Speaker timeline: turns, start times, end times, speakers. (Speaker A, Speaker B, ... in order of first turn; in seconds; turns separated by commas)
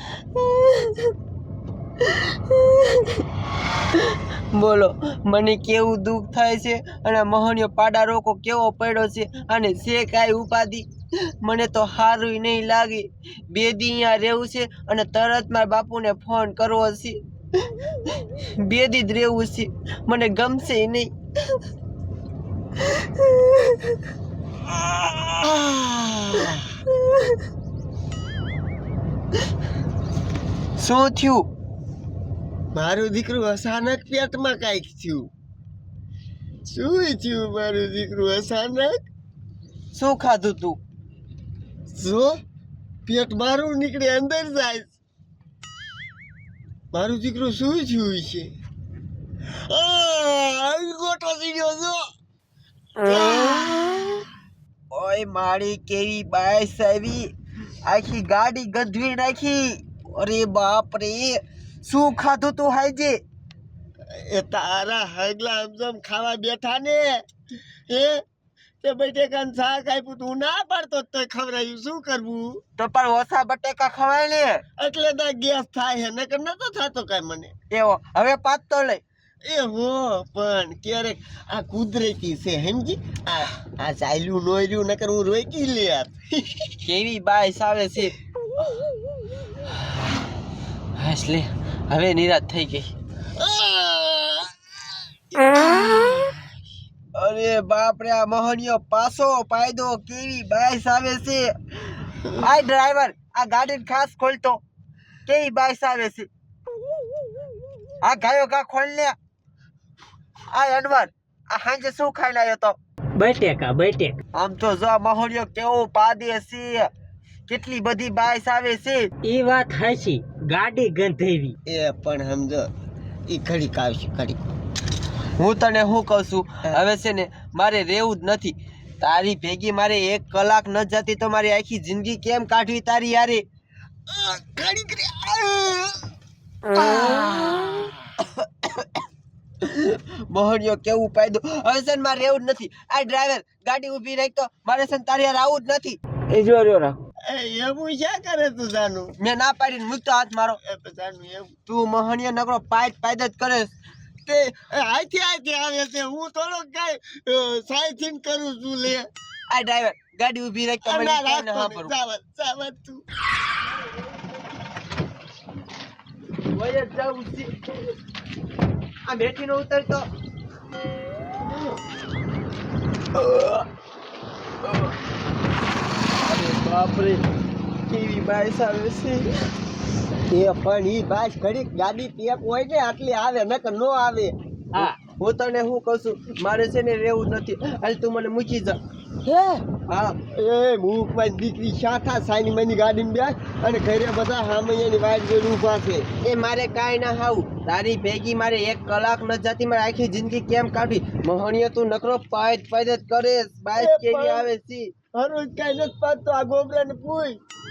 Speaker A: 0.3-1.1, Speaker A: 2.3-3.2, Speaker A: 4.0-10.9, Speaker A: 11.4-17.2, Speaker A: 18.1-21.1, Speaker A: 23.2-23.9, Speaker B: 25.4-26.7, Speaker A: 30.8-31.5, Speaker B: 32.7-35.3, Speaker B: 36.7-39.0, Speaker A: 39.9-40.8, Speaker B: 41.9-42.4, Speaker B: 43.1-44.9, Speaker B: 46.9-48.5, Speaker B: 49.7-52.0, Speaker B: 53.0-54.2, Speaker A: 54.9-57.3, Speaker A: 57.9-63.2, Speaker B: 64.1-67.2, Speaker B: 67.9-68.2, Speaker B: 68.8-72.6, Speaker A: 72.8-74.6, Speaker B: 74.8-77.5, Speaker A: 77.7-79.0, Speaker B: 79.4-86.5, Speaker A: 86.8-88.1, Speaker A: 91.0-92.9, Speaker B: 93.4-94.5, Speaker B: 95.3-96.4, Speaker A: 97.2-101.5, Speaker A: 102.2-104.6, Speaker A: 105.3-106.3, Speaker A: 108.0-109.2, Speaker A: 110.5-112.8, Speaker C: 113.2-114.2, Speaker A: 114.3-116.9, Speaker A: 117.5-119.1, Speaker C: 119.2-121.5, Speaker B: 121.7-122.7, Speaker B: 123.3-124.4, Speaker A: 125.4-133.4, Speaker B: 134.1-136.0, Speaker B: 136.8-137.9, Speaker A: 136.8-137.2, Speaker A: 139.6-146.0, Speaker B: 147.3-149.1, Speaker A: 149.2-150.6, Speaker B: 150.6-151.5, Speaker A: 151.7-153.7, Speaker B: 154.3-159.1, Speaker A: 159.5-162.0, Speaker B: 160.8-163.0, Speaker A: 166.5-167.5, Speaker A: 169.1-170.0, Speaker A: 173.2-173.6, Speaker A: 176.2-177.2, Speaker A: 177.9-179.3, Speaker B: 180.3-184.3, Speaker A: 185.1-188.8, Speaker B: 189.2-189.7, Speaker A: 189.8-190.2, Speaker B: 190.3-196.1, Speaker A: 196.2-204.9, Speaker B: 203.8-204.5, Speaker B: 205.2-207.4